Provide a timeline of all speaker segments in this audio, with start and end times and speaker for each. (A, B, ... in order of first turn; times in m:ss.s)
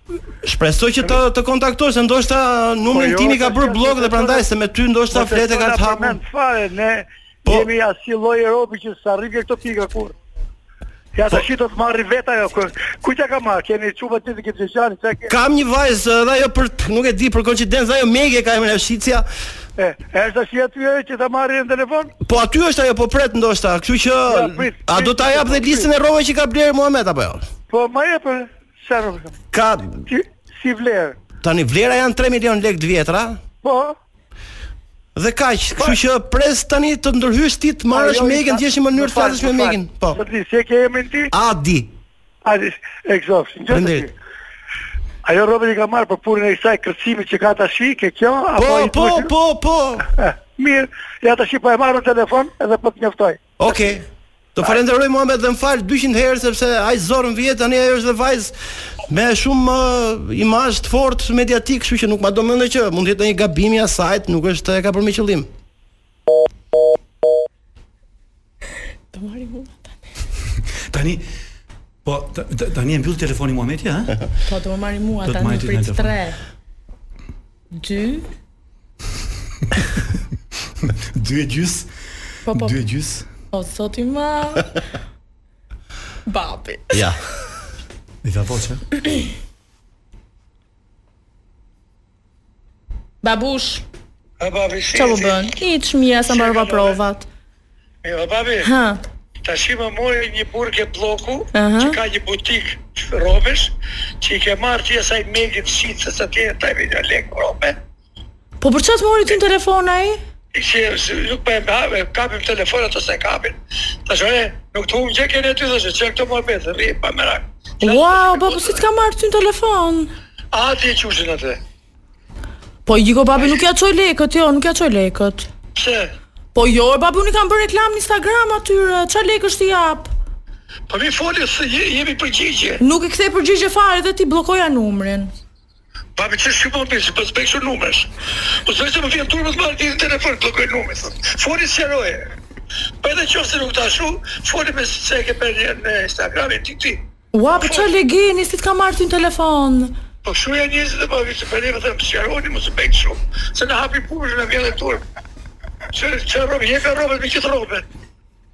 0:00.4-0:06.2 A
0:02.9-0:04.4 B
0:05.1-0:10.1 B
0:11.1-0:15.3 B
0:15.3-0:19.3 A
0:19.8-0:22.1 B
0:22.2-0:27.4 A
0:24.3-0:25.9 B
0:27.7-0:29.4 B
0:29.5-0:30.1 A
0:30.1-0:31.2 B
0:31.4-0:33.4 A
0:33.6-0:34.0 B
0:35.2-0:40.2 A
0:37.9-0:41.3 B
0:41.3-0:41.9 A
0:42.4-0:44.1 B
0:43.7-0:44.1 A
0:45.2-0:49.3 B
0:48.6-0:50.0 A
0:50.2-0:53.4 B
0:53.6-0:58.5 A
0:59.1-1:05.5 A
1:09.1-1:09.8 C
1:10.9-1:11.2 D
1:12.0-1:14.2 D
1:14.5-1:16.4 C
1:15.2-1:16.1 D
1:17.7-1:18.2 C
1:21.1-1:21.9 D
1:22.5-1:22.8 C
1:22.5-1:23.3 D
1:23.5-1:24.8 C
1:26.3-1:27.0 C
1:26.9-1:27.2 A
1:28.2-1:28.8 D
1:33.2-1:33.8 C
1:34.4-1:35.4 B
1:34.9-1:37.2 C
1:36.3-1:37.0 B
1:38.0-1:38.7 B
1:38.6-1:39.0 C
1:39.4-1:47.8 B
1:41.5-1:42.0 C
1:48.6-1:50.2 C
1:50.5-1:58.8 B
1:57.8-2:00.1 C
2:00.5-2:01.6 B
2:02.8-2:05.5 C
2:05.8-2:06.1 B
2:06.5-2:10.1 C
2:10.9-2:12.8 B
2:12.8-2:15.3 C
2:16.2-2:18.1 B
2:18.6-2:22.3 B
2:23.0-2:27.0 B
2:27.3-2:29.9 C
2:27.5-2:27.9 B
2:30.2-2:35.0 B
2:35.9-2:37.8 B